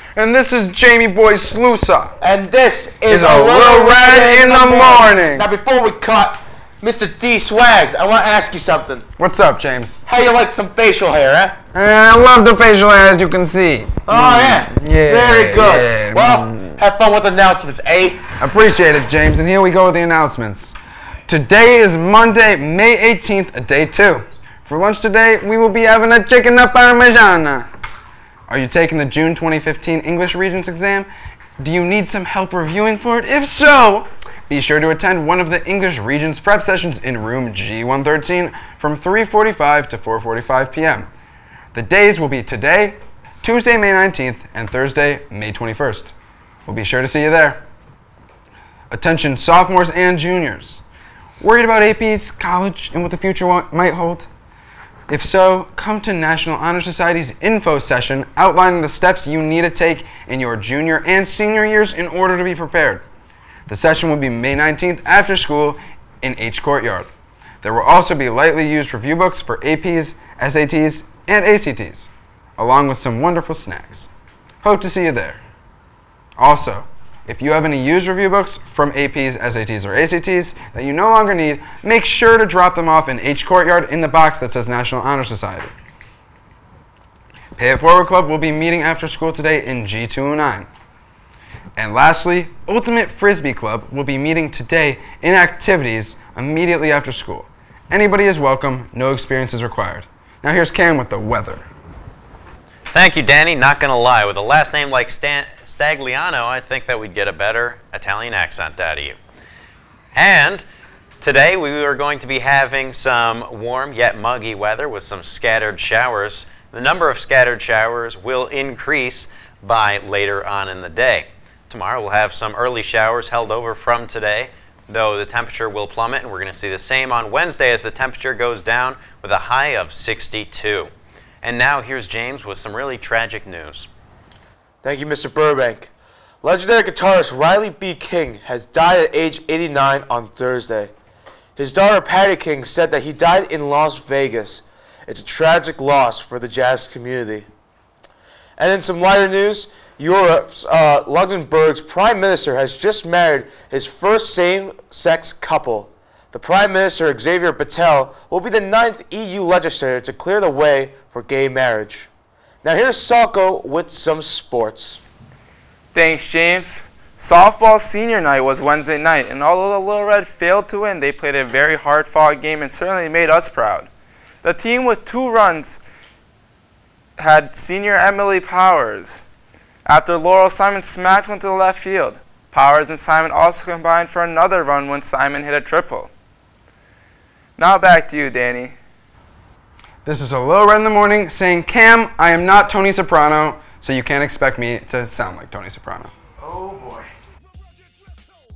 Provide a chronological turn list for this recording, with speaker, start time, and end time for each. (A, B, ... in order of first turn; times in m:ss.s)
0:00.2-0:02.2 A
0:02.2-0:09.1 B
0:03.1-0:05.5 A
0:09.2-0:10.0 A
0:10.0-0:11.6 B
0:11.7-0:16.7 A
0:14.1-0:18.2 B
0:18.4-0:20.8 A
0:21.3-0:27.7 A
0:28.5-0:31.1 A
0:31.6-0:41.1 A
0:41.7-0:46.1 A
0:46.7-0:47.6 A
0:48.9-0:50.8 A
0:51.4-0:54.3 A
0:55.1-1:03.0 A
1:03.7-1:07.1 A
1:07.6-1:14.1 A
1:14.6-1:15.4 A
1:16.4-1:25.7 A
1:27.6-1:30.7 A
1:31.8-1:41.6 A
1:42.9-1:49.2 C
1:50.1-1:50.6 C
1:51.2-2:10.9 C
2:11.4-2:13.9 C
2:14.8-2:15.9 B
2:16.4-2:20.9 B
2:21.6-2:27.5 B
2:28.6-2:42.1 B
2:42.6-2:45.0 B
2:45.9-2:53.9 D
2:54.4-2:55.8 D
2:57.2-2:59.2 D
2:59.8-3:06.1 D
3:07.6-3:08.8 D
3:10.0-3:16.1 A
3:16.4-3:17.1 B